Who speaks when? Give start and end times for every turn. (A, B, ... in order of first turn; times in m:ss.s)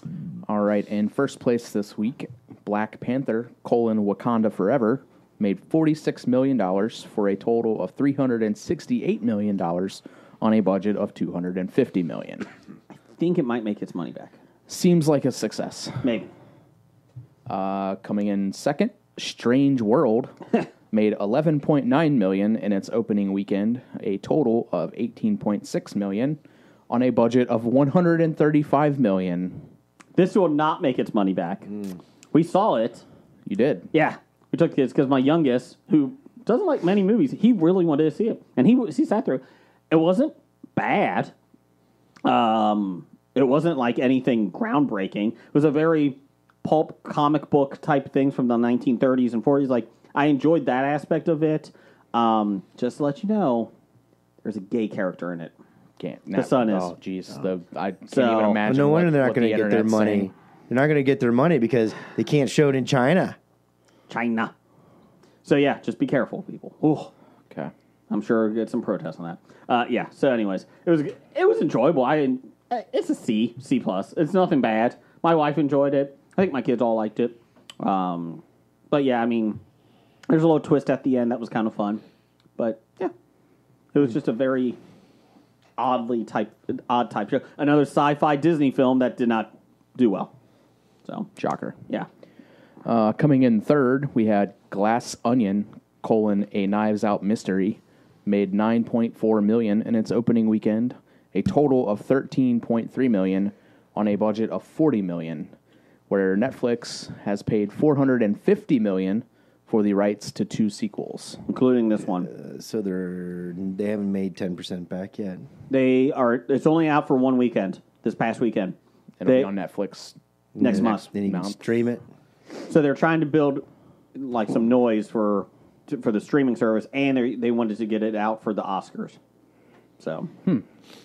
0:00.5-0:12.5 A
0:13.1-0:14.4 B
0:14.7-0:16.1 A
0:16.0-0:16.3 B
0:17.5-0:20.3 A
0:20.9-0:26.4 A
0:26.9-0:29.6 A
0:30.2-0:31.7 B
0:31.7-0:31.9 C
0:32.3-0:33.0 B
0:33.4-0:33.9 A
0:33.9-0:41.3 B
0:42.2-0:53.7 B
0:54.4-0:55.5 B
0:56.0-1:00.3 A
0:56.3-0:56.9 B
0:58.1-0:58.6 B
0:58.6-1:03.4 C
1:04.1-1:04.5 B
1:05.4-1:07.1 B
1:08.1-1:19.6 B
1:20.3-1:22.0 B
1:22.6-1:23.1 B
1:23.9-1:24.8 B
1:25.8-1:30.3 B
1:31.4-1:31.8 A
1:32.8-1:45.5 A
1:46.1-1:51.4 A
1:51.5-1:52.3 B
1:52.2-1:55.5 C
1:55.7-1:59.5 B
1:59.2-2:01.7 A
2:00.5-2:02.0 C
2:00.6-2:01.0 B
2:02.6-2:09.2 B
2:10.0-2:10.3 B